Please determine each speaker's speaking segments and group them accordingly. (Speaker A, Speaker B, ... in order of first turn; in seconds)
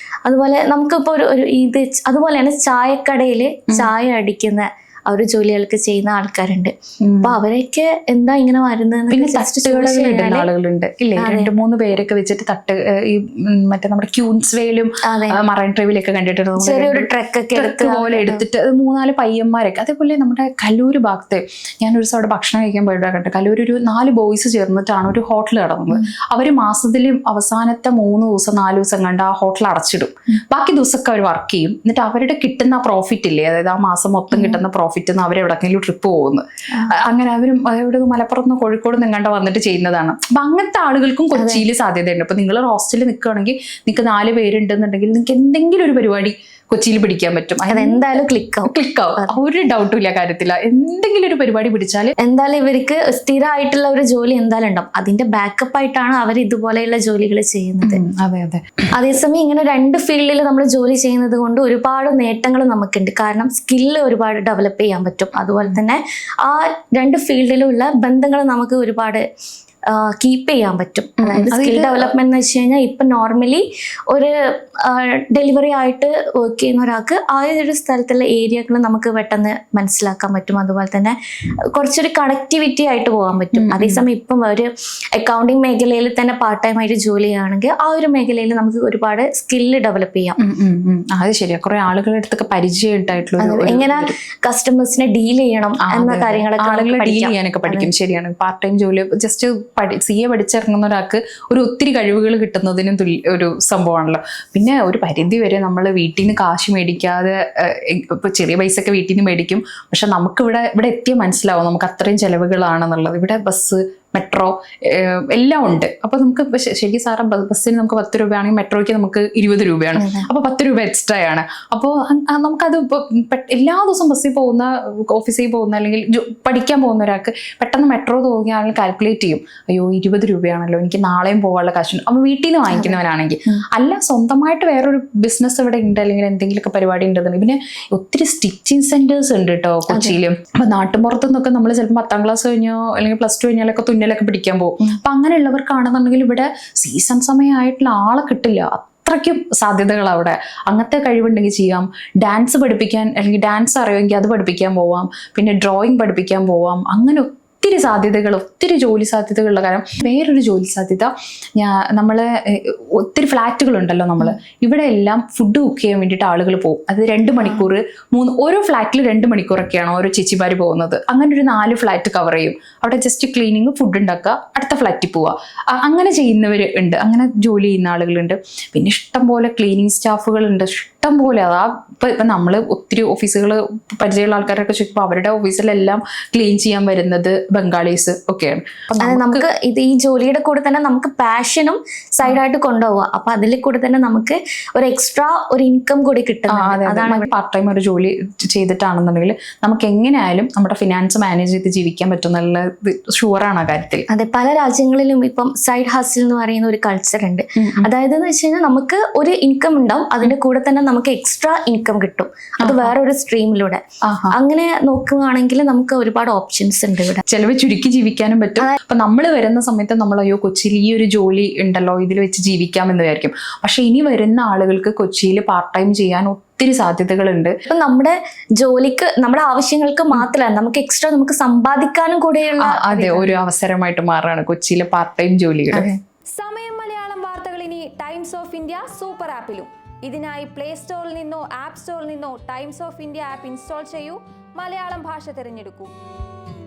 Speaker A: 0.3-10.5, 11.2-11.5, 15.0-15.4, 16.6-18.4, 34.3-34.6, 41.4-41.6, 47.7-49.3, 52.2-58.0, 58.9-69.2, 69.9-81.2, 81.7-90.4, 93.4-97.9, 120.0-120.3, 132.7-133.6, 139.9-140.2, 189.0-197.3, 204.1-213.8, 214.3-217.2, 227.7-233.4, 235.7-236.0
Speaker B: 7.0-7.3, 9.1-48.1, 48.6-52.1, 57.8-58.6, 71.2-72.1, 83.5-84.0, 90.4-94.2, 95.8-189.5, 196.5-204.1, 207.6-207.9, 212.6-212.9, 214.1-214.3, 217.3-227.6, 232.6-235.9
Speaker C: 236.3-245.9